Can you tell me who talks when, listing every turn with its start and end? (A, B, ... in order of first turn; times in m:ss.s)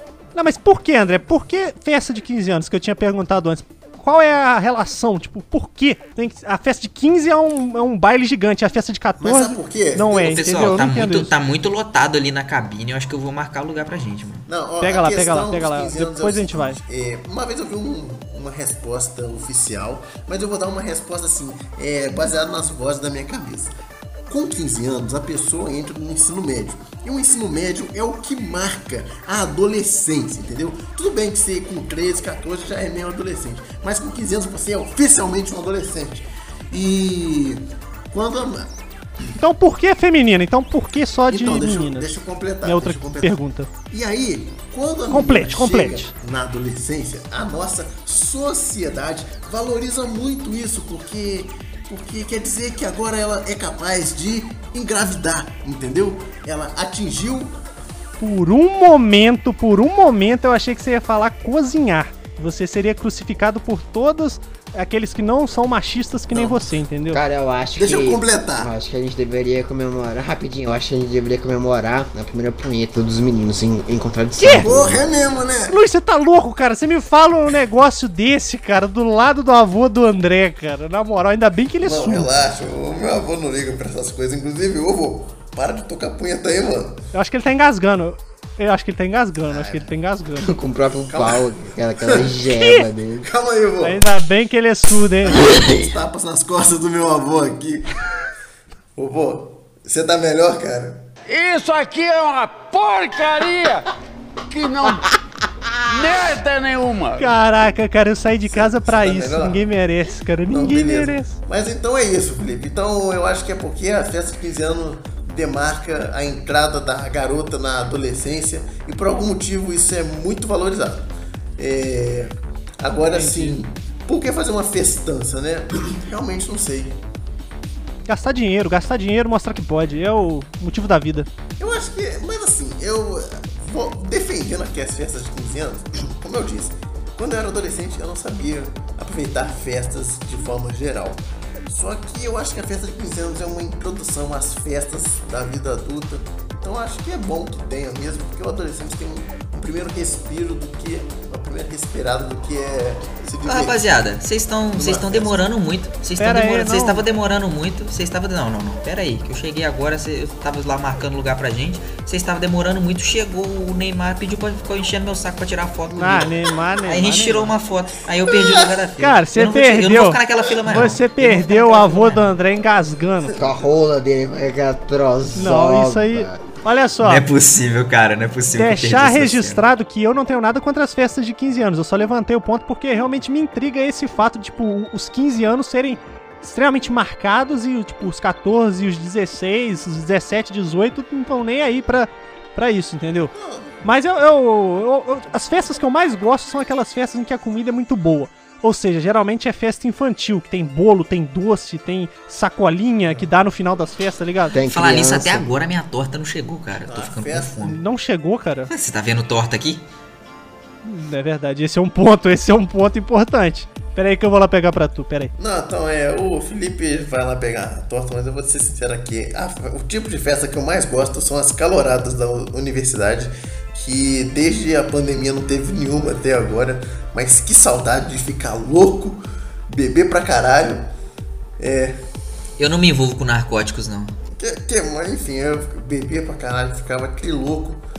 0:00.4-0:11.3 A
0:09.2-0:10.5 B
0:10.3-0:14.5 C
0:14.5-0:23.7 B
0:14.8-0:16.8 A
0:24.3-0:38.7 B
0:39.4-0:43.7 A
0:41.3-0:43.4 B
0:43.9-0:57.6 B
0:45.1-0:46.1 A
0:58.2-1:07.2 A
1:06.3-1:06.7 B
1:07.1-1:15.0 D
1:07.8-1:08.7 B
1:14.4-1:14.7 A
1:14.6-1:15.8 B
1:15.7-1:22.3 A
1:21.8-1:27.0 B
1:27.1-1:30.5 A
1:29.4-1:29.9 B
1:30.4-1:33.3 D
1:31.1-1:31.5 B
1:32.0-1:32.3 B
1:32.6-1:32.9 A
1:33.2-1:34.0 B
1:33.8-1:35.5 A
1:35.2-1:38.0 B
1:39.0-1:41.0 B
1:41.3-1:43.8 E
1:44.5-1:45.1 E
1:45.9-1:47.3 E
1:47.2-1:51.4 A
1:48.5-1:49.7 B
1:50.5-2:07.0 B
2:03.1-2:03.6 A
2:08.1-2:11.3 A
2:11.6-2:33.8 B
2:33.4-2:46.3 C
2:34.7-2:35.4 B
2:36.2-2:37.0 A
2:46.0-2:47.5 A
2:46.0-2:46.3 B
2:46.8-2:52.2 C
2:48.2-2:48.8 B
2:49.0-2:53.4 A
2:53.3-2:53.6 B
2:53.4-2:56.4 D
2:55.4-2:57.2 A
2:57.0-2:59.6 C
2:58.5-3:24.6 A
3:13.3-3:13.8 B
3:24.5-3:25.5 D
3:24.7-3:27.8 C
3:26.8-3:27.6 B
3:27.6-3:28.7 A
3:28.7-3:29.8 C
3:30.8-3:35.3 A
3:35.4-3:50.9 B
3:51.6-3:52.0 B
3:52.6-3:54.2 C
3:54.4-3:57.8 B